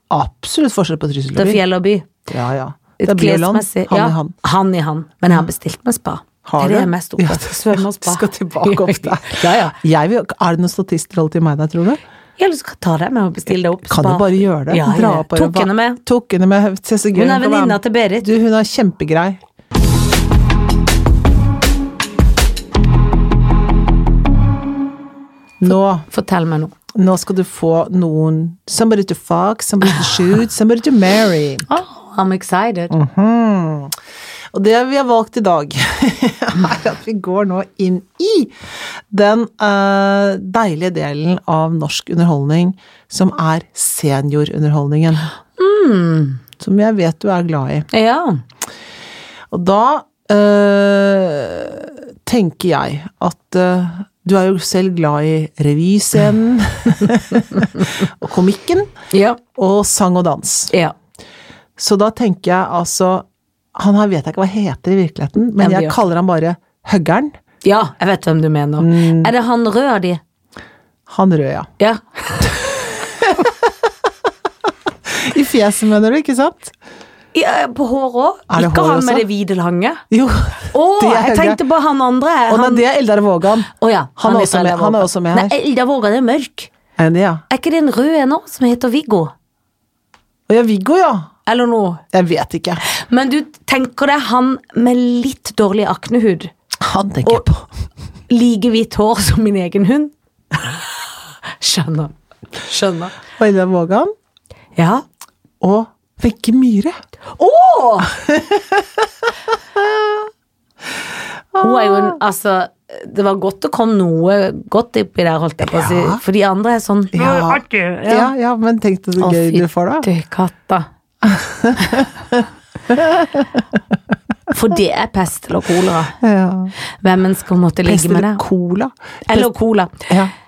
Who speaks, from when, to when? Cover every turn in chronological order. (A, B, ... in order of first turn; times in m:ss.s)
0:00.1-0:01.6 A
0:01.4-0:02.1 B
0:02.3-0:04.3 A
0:03.0-0:09.8 B
0:06.4-0:12.0 A
0:12.4-0:16.0 B
0:13.9-0:19.4 A
0:17.1-0:18.3 B
0:25.6-0:26.1 A
0:26.1-0:26.7 B
0:26.9-0:31.7 A
0:31.7-0:32.9 B
0:32.9-0:33.9 A
0:34.5-0:38.5 A
0:39.1-0:45.3 A
0:45.6-0:46.4 B
0:46.6-0:47.9 A
0:47.9-0:48.4 B
0:49.5-0:58.9 A
0:59.1-0:59.4 B
0:59.5-1:00.7 A
1:01.8-1:07.3 A
1:05.6-1:06.0 B
1:07.6-1:10.2 B
1:08.8-1:09.3 A
1:11.1-1:11.7 A
1:11.8-1:12.6 B
1:13.0-1:13.7 A
1:15.0-1:16.7 A
1:17.3-1:20.0 B
1:18.5-1:19.2 A
1:20.1-1:21.6 A
1:20.7-1:22.8 B
1:22.5-1:25.6 A
1:23.7-1:26.7 B
1:27.0-1:27.4 A
1:27.5-1:29.3 B
1:30.5-1:31.3 A
1:31.4-1:32.0 B
1:32.1-1:32.8 A
1:32.9-1:36.5 B
1:36.8-1:37.6 A
1:38.3-1:41.0 B
1:41.6-1:43.2 B
1:43.4-1:44.1 A
1:44.8-1:45.0 B
1:45.6-1:47.0 A
1:47.4-1:48.1 B
1:48.2-1:49.0 A
1:49.7-1:50.2 A
1:51.5-1:52.2 A
1:51.6-1:58.3 B
1:55.6-1:56.2 A
1:57.1-2:00.1 A
1:59.2-2:00.9 B
2:01.2-2:03.6 A
2:04.5-2:06.2 B
2:06.2-2:06.7 A
2:07.0-2:08.4 B
2:07.8-2:10.3 A
2:09.3-2:10.1 B